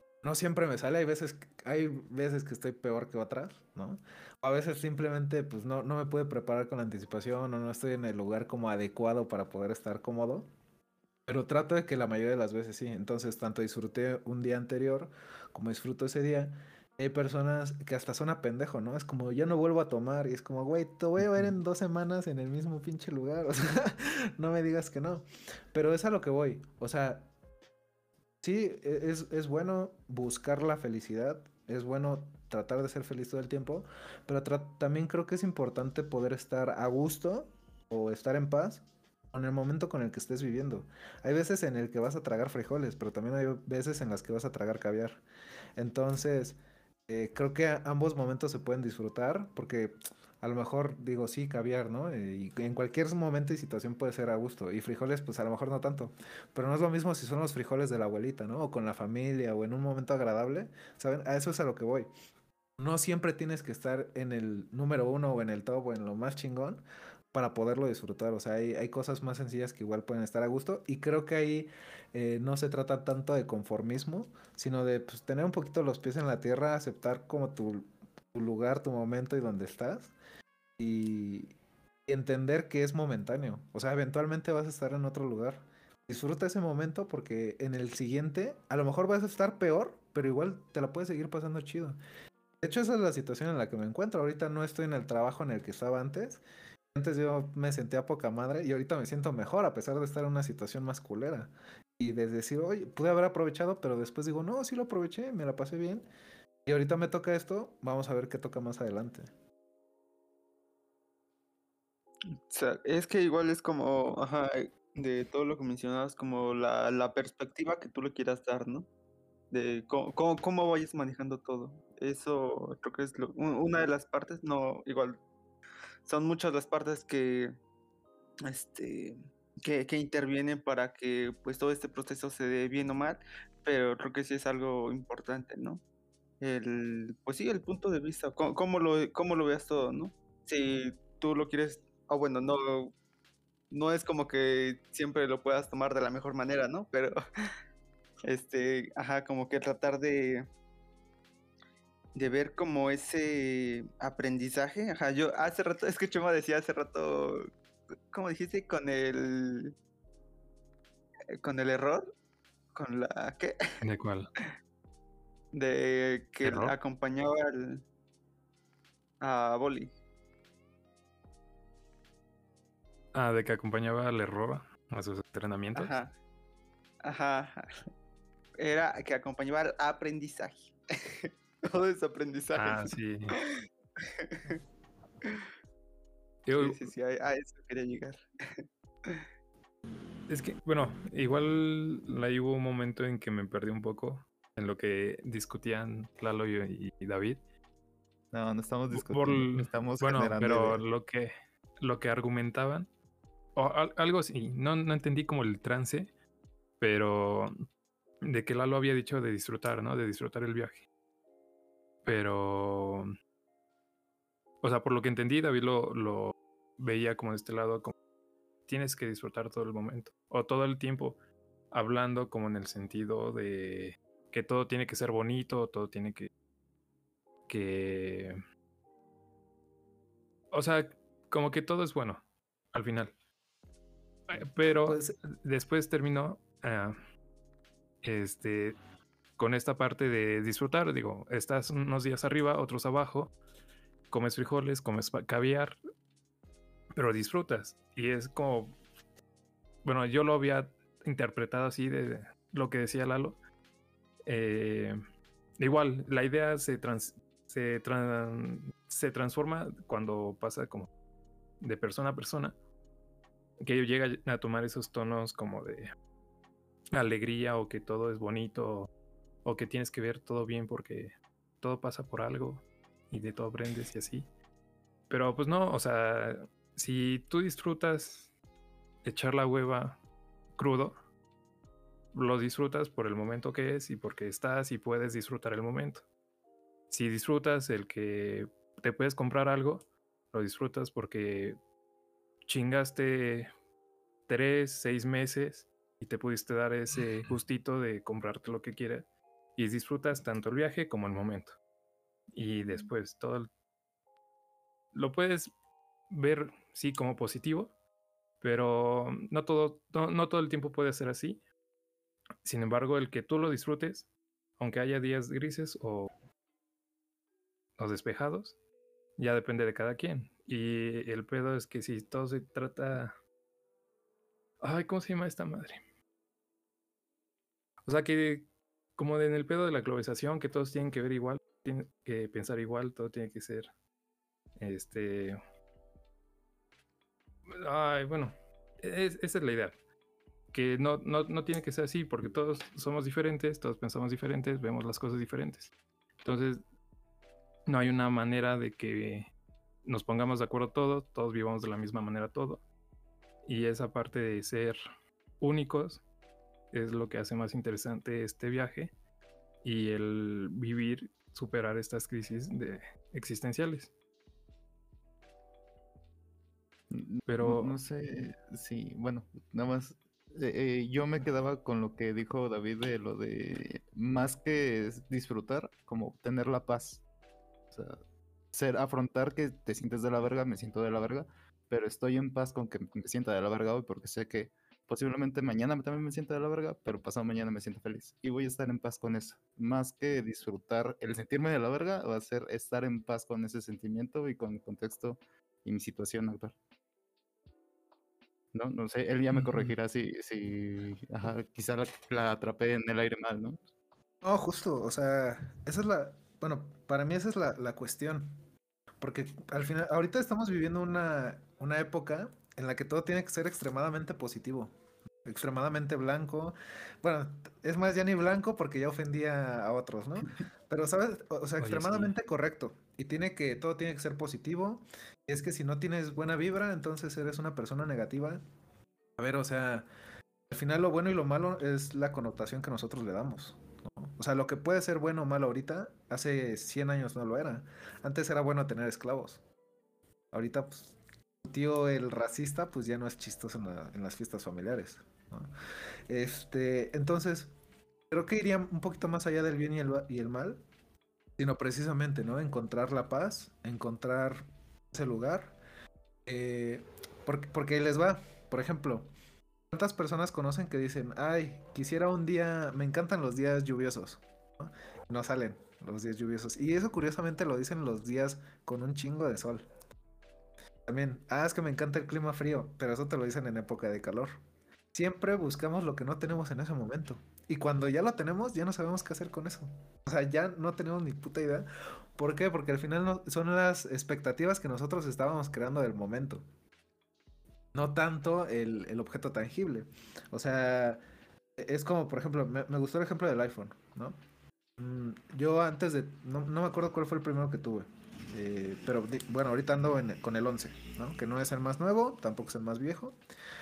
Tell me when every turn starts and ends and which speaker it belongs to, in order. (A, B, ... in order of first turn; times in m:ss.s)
0:00.2-0:10.5 A
0:11.3-0:27.3 A
0:21.2-0:21.5 B
0:28.4-0:45.2 A
0:45.8-1:02.1 A
1:02.8-1:20.1 A
1:20.8-1:21.6 A
1:22.1-1:32.0 A
1:32.6-1:36.4 A
1:36.9-1:46.1 A
1:46.7-1:49.3 A
1:52.5-1:58.9 C
1:59.5-2:05.2 C
2:06.0-2:07.6 C
2:08.5-2:15.8 C
2:16.4-2:22.9 C
2:23.7-2:27.2 C
2:28.3-2:30.5 C
2:32.2-2:37.5 C
2:38.1-2:39.8 C
2:41.4-2:42.1 C
2:42.8-2:43.6 C
2:43.8-2:44.3 D
2:45.5-2:47.8 C
2:46.4-2:46.7 D
2:49.2-2:49.9 C
2:53.1-2:55.9 D
2:55.8-2:56.1 C
2:57.0-2:57.8 C
2:58.6-3:04.6 C
3:02.6-3:03.4 D
3:06.5-3:06.8 D
3:06.6-3:09.2 C
3:10.3-3:17.4 D
3:18.3-3:20.8 B
3:18.9-3:22.9 D
3:23.6-3:26.1 D
3:26.8-3:27.5 D
3:28.2-3:30.8 D
3:32.0-3:33.1 D
3:34.6-3:37.9 D
3:38.7-3:41.2 D
3:41.7-3:46.3 D
3:47.5-3:48.4 D
3:50.5-3:53.1 D
3:54.3-3:57.0 D
3:54.9-3:55.2 A
3:58.0-3:58.8 D
3:59.4-4:03.3 D
4:04.1-4:05.8 D
4:07.0-4:08.8 D
4:09.8-4:13.4 D
4:14.3-4:15.0 D
4:15.6-4:20.9 D
4:21.6-4:22.6 D
4:23.6-4:25.9 D
4:26.9-4:28.9 D
4:29.4-4:34.3 D
4:35.1-4:38.3 D
4:39.0-4:40.0 D
4:40.6-4:41.0 D
4:42.1-4:46.0 D
4:46.9-4:51.6 D
4:52.5-4:53.5 D
4:54.3-5:01.6 D
5:02.3-5:03.5 D
5:04.9-5:05.5 D
5:06.1-5:07.8 D
5:08.4-5:11.4 D
5:12.4-5:16.1 D
5:17.8-5:18.6 D
5:19.2-5:23.2 D
5:24.6-5:25.8 D
5:27.9-5:33.7 D
5:34.6-5:35.4 D
5:37.5-5:39.8 D
5:40.5-5:46.6 D
5:47.7-5:49.3 D
5:49.8-5:52.6 D
5:53.4-5:54.8 D
5:55.4-5:56.0 D
5:56.7-5:58.9 D
5:59.6-6:03.9 D
6:06.9-6:17.0 B
6:07.3-6:07.8 D
6:17.7-6:18.0 B
6:18.5-6:36.6 B
6:38.5-6:43.6 B
6:44.2-6:48.4 A
6:49.0-6:54.7 A
6:55.2-7:08.4 A
7:01.6-7:02.2 D
7:09.2-7:09.9 A
7:10.5-7:19.4 A
7:20.3-7:25.5 A
7:26.1-7:27.5 A
7:28.1-7:30.6 A
7:31.4-7:35.6 A
7:36.3-7:39.1 A
7:39.7-7:49.7 A
7:50.9-7:54.4 A
7:54.9-8:06.4 A
8:07.7-8:11.0 A
8:11.6-8:14.2 A
8:14.8-8:23.2 A